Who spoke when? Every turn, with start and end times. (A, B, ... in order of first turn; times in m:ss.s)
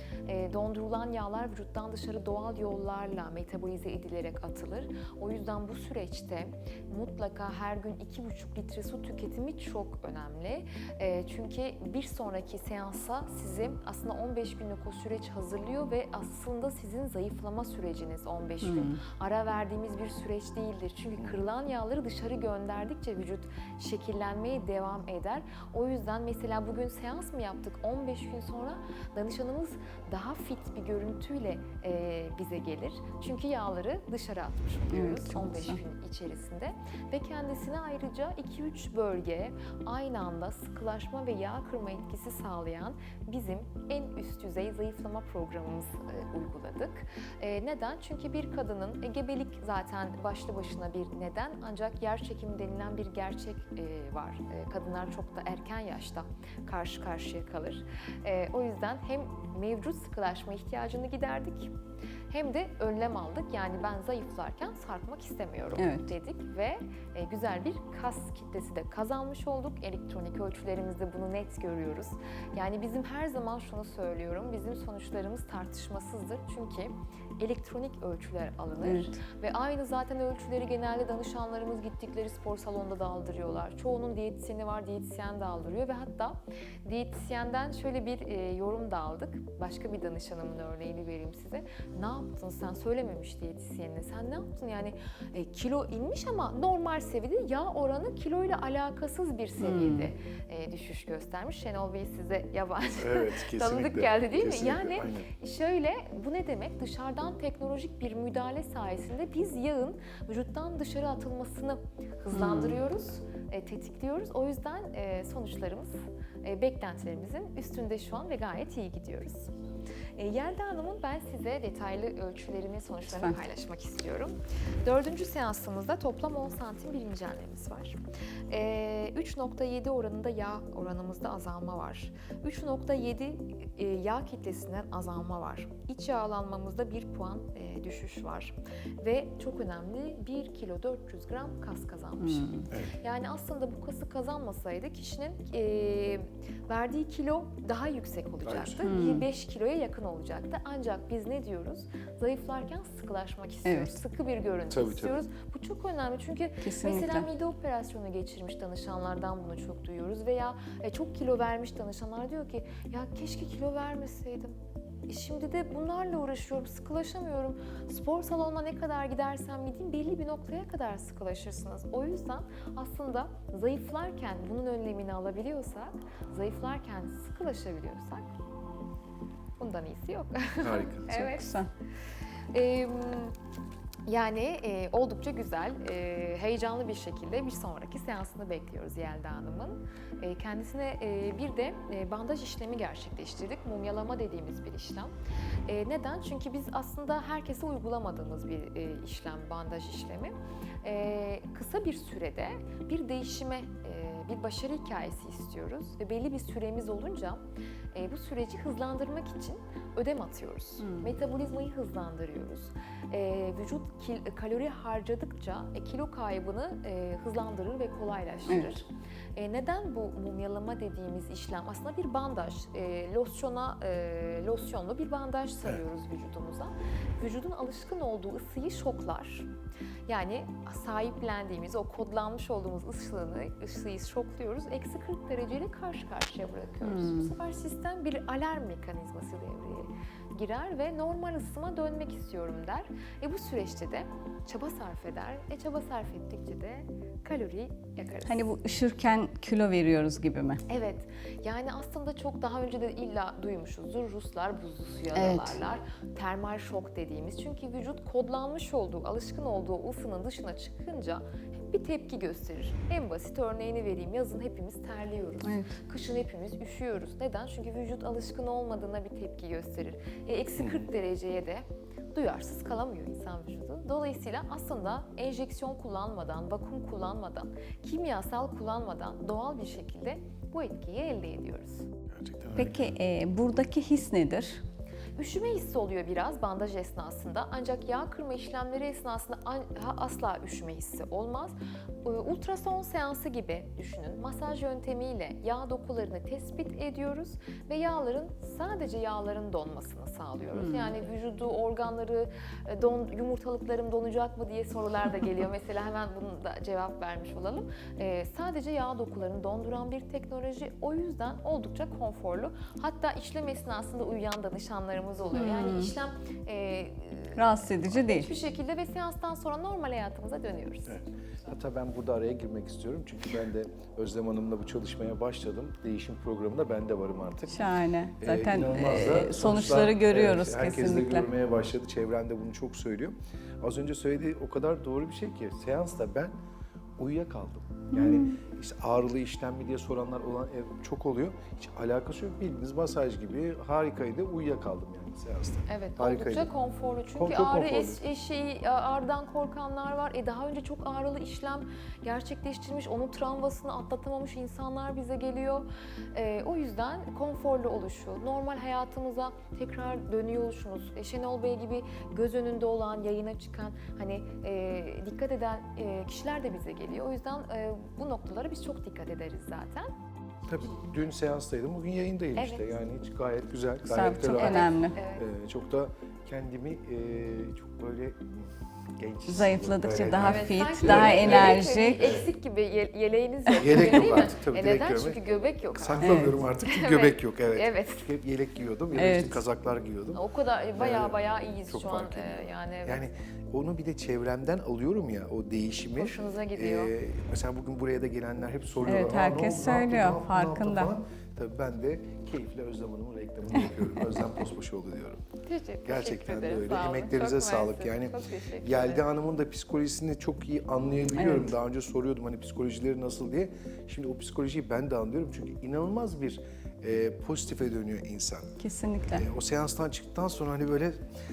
0:00.3-1:01.7 A
0:18.6-0:19.0 B
0:34.9-0:35.8 B
1:02.3-1:59.5 A
1:05.8-1:06.1 B
1:18.8-1:19.2 B
1:39.6-1:40.1 B
1:43.0-1:45.3 C
1:52.3-1:52.8 B
2:00.2-2:08.0 A
2:03.1-2:03.4 B
2:08.5-2:44.6 A
2:22.2-2:22.7 B
2:28.4-2:28.9 C
2:28.8-2:29.3 B
2:33.6-2:34.0 B
2:34.7-2:35.2 C
2:36.6-2:37.3 B
2:45.1-2:58.3 A
2:59.6-3:01.5 A
3:00.6-3:01.4 C
3:01.2-3:01.7 B
3:02.5-3:03.4 A
3:04.1-3:15.1 A
3:15.7-3:27.4 A
3:27.9-3:49.5 A
3:30.8-3:31.1 B
3:38.5-3:38.7 B
3:50.1-4:08.5 A
3:56.8-3:57.4 B
4:08.3-4:10.6 B
4:10.7-4:41.9 A
4:15.2-4:15.5 B
4:25.4-4:25.7 B
4:30.6-4:30.9 C
4:42.1-4:42.9 C
4:42.6-4:44.6 B
4:45.2-5:21.0 A
5:00.5-5:00.9 B
5:15.3-5:15.9 B
5:17.4-5:18.3 B
5:20.9-5:27.7 C
5:27.5-5:31.3 B
5:28.2-5:36.3 C
5:37.0-5:46.5 C
5:37.9-5:38.3 B
5:45.7-6:09.9 A
5:47.2-5:48.0 C
6:10.5-6:22.2 C
6:12.4-6:12.7 A
6:13.9-6:15.0 B
6:14.3-6:15.3 A
6:19.3-6:22.1 B
6:20.1-6:28.1 A
6:23.6-6:25.2 C
6:25.7-6:30.2 C
6:26.0-6:26.4 B
6:28.9-6:29.4 B
6:30.1-6:33.1 A
6:30.8-6:45.2 C
6:36.0-6:36.9 A
6:38.9-6:40.9 B
6:43.6-6:44.3 B
6:45.4-6:49.1 A
6:45.8-6:58.6 C
6:51.1-6:51.6 B
6:58.6-6:59.3 B
6:59.1-7:01.0 C